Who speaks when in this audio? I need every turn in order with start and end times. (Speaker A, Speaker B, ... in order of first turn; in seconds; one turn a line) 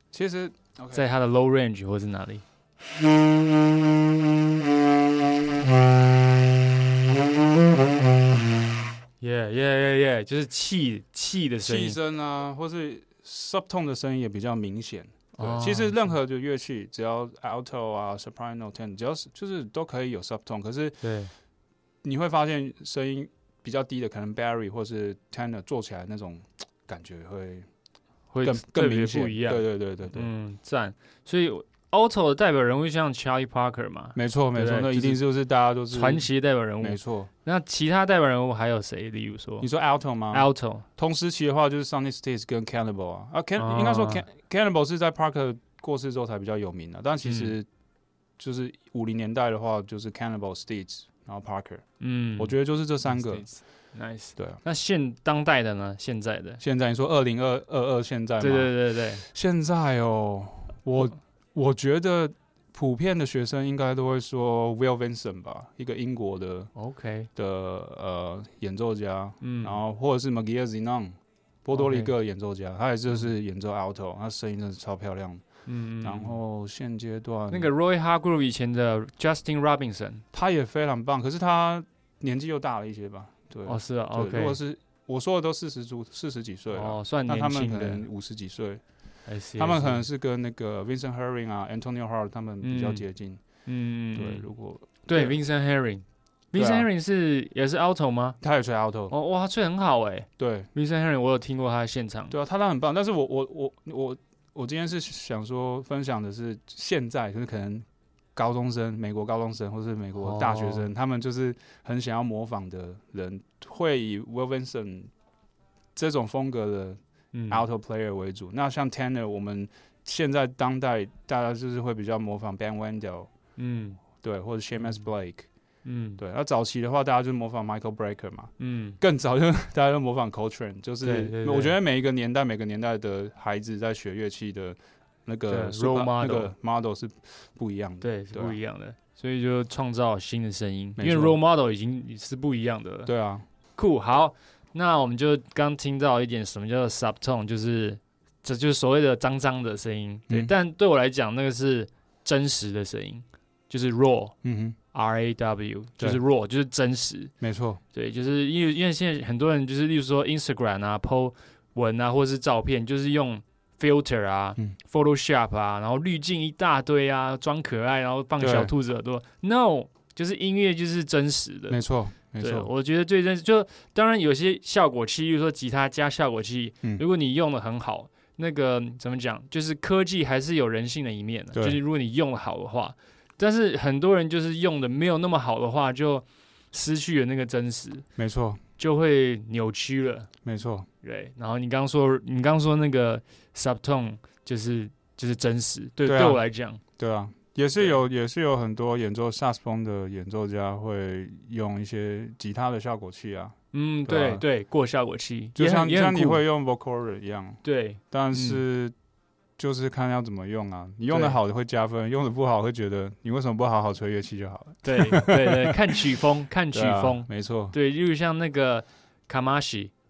Speaker A: 0.1-1.1
Speaker B: 0.9-2.4
Speaker B: 9.2-12.0
Speaker A: 11.6-21.0
Speaker B: 15.4-16.1
Speaker B: 21.0-21.3
Speaker A: 22.0-27.7
Speaker B: 28.3-35.2
Speaker A: 28.4-30.3
Speaker A: 34.1-36.2
Speaker B: 35.9-39.7
Speaker A: 36.8-37.3
Speaker A: 39.6-47.7
Speaker B: 40.3-40.8
Speaker B: 43.6-44.2
Speaker B: 47.2-47.5
Speaker A: 48.4-51.8
Speaker B: 52.0-52.5
Speaker A: 52.4-53.5
Speaker B: 53.0-56.6
Speaker A: 56.6-66.7
Speaker B: 58.4-59.2
Speaker B: 66.8-67.3
Speaker A: 67.3-71.1
Speaker B: 69.4-69.8
Speaker A: 71.6-75.4
Speaker B: 71.7-72.1
Speaker B: 75.7-76.4
Speaker A: 76.0-77.7
Speaker B: 77.5-80.2
Speaker A: 80.3-88.8
Speaker B: 83.7-84.6
Speaker B: 86.7-88.1
Speaker B: 89.3-90.0
Speaker A: 89.6-93.4
Speaker B: 92.6-93.0
Speaker B: 93.7-94.5
Speaker A: 94.1-95.4
Speaker B: 95.1-98.4
Speaker A: 96.5-96.9
Speaker A: 98.4-99.1
Speaker B: 99.1-102.3
Speaker A: 100.4-100.7
Speaker A: 102.3-115.1
Speaker B: 110.2-110.9
Speaker A: 116.0-117.0
Speaker B: 117.3-117.7
Speaker A: 117.5-123.3
Speaker B: 123.6-124.0
Speaker A: 124.2-125.5
Speaker B: 125.8-126.2
Speaker A: 126.2-138.6
Speaker B: 128.6-129.0
Speaker B: 131.0-131.8
Speaker B: 135.5-136.5
Speaker B: 138.0-143.1
Speaker A: 141.0-141.4
Speaker A: 143.1-143.4
Speaker B: 143.8-154.3
Speaker A: 154.4-154.8
Speaker B: 154.9-157.3
Speaker A: 157.4-157.8
Speaker B: 157.9-171.8
Speaker A: 168.4-168.7
Speaker A: 171.7-172.7
Speaker B: 172.4-188.1
Speaker A: 181.5-181.8
Speaker A: 188.2-188.6
Speaker B: 188.8-190.3
Speaker A: 190.4-190.9
Speaker B: 191.0-196.8
Speaker A: 196.1-196.4
Speaker A: 197.0-203.6
Speaker B: 203.7-206.4
Speaker A: 204.1-204.4
Speaker A: 205.6-208.9
Speaker B: 207.6-208.6
Speaker A: 209.6-216.0
Speaker B: 211.1-211.4
Speaker B: 214.8-219.9
Speaker A: 216.7-217.7